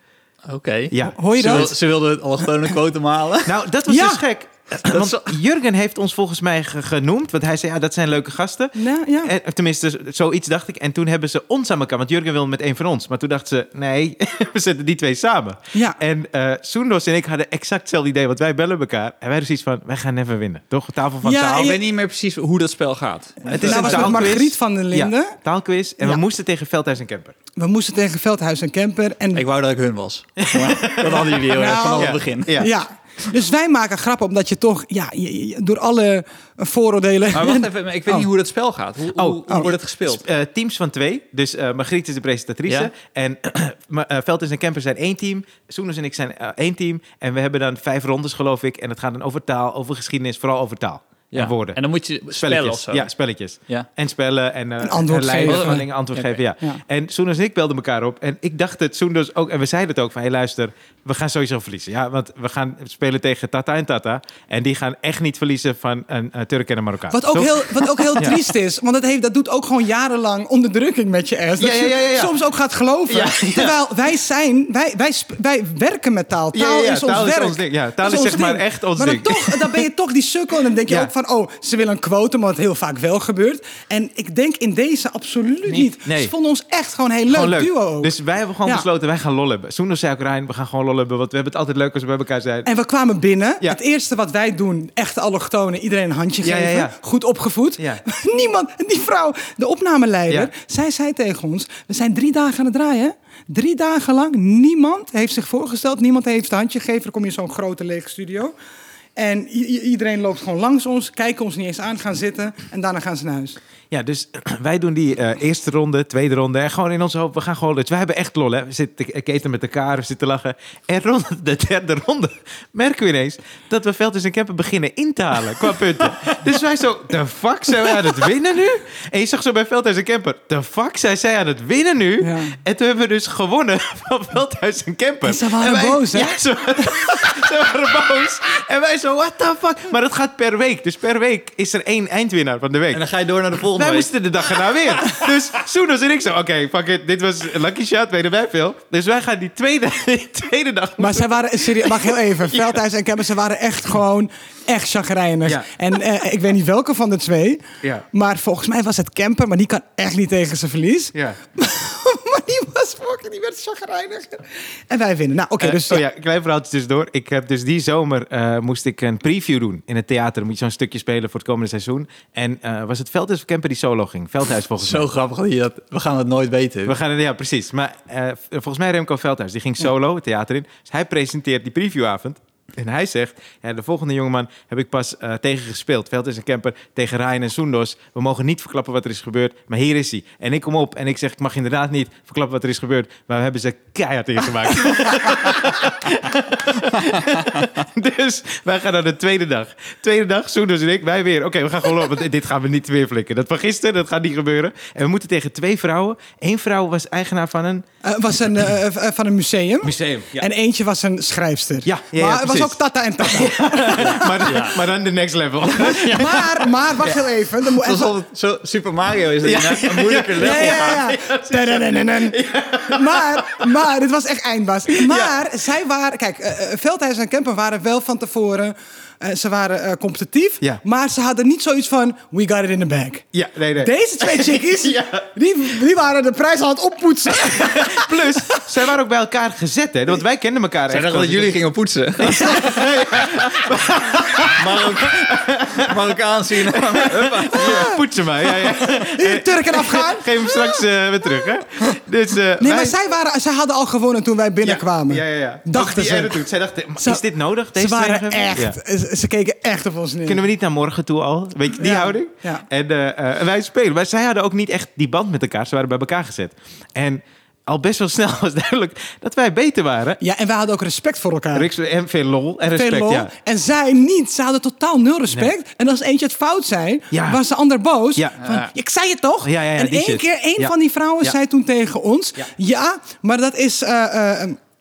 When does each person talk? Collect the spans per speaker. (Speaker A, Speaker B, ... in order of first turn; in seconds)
Speaker A: 0.5-3.6, 4.8-5.3, 21.5-24.2, 29.3-32.7, 37.3-40.2, 51.3-53.1, 55.4-56.4, 142.9-144.7, 174.8-176.9, 214.4-214.8, 217.8-221.0, 240.9-242.8, 244.5-247.9, 278.4-278.7
Speaker B: 0.9-1.8, 3.4-21.8, 23.5-27.3, 30.4-31.4, 31.9-32.7, 39.1-51.8, 52.3-68.4, 71.6-72.3, 73.1-73.8, 76.5-79.8, 85.7-86.3, 87.3-92.7, 96.4-96.9, 113.9-143.0, 143.6-152.8, 165.6-175.1, 176.8-207.8, 209.8-210.4, 211.8-217.2, 219.4-223.7, 224.9-225.3, 233.3-235.2, 237.4-241.6, 242.2-246.0, 246.6-252.9, 254.6-258.8, 260.2-270.2, 271.5-273.3, 277.1-277.4, 278.1-278.5, 279.4-281.3
Speaker C: 1.1-1.8, 3.9-4.2, 8.8-9.3, 15.7-16.0, 21.2-21.8, 23.4-25.4, 27.6-29.4, 31.4-38.3, 54.8-55.9, 67.1-88.8, 92.6-108.5, 109.2-113.6, 132.2-132.6, 135.2-137.3, 151.0-166.0, 208.0-214.6, 215.8-218.2, 220.4-233.2, 233.8-238.7, 247.5-250.8, 252.6-260.4, 261.8-262.6, 270.2-271.7, 272.7-284.6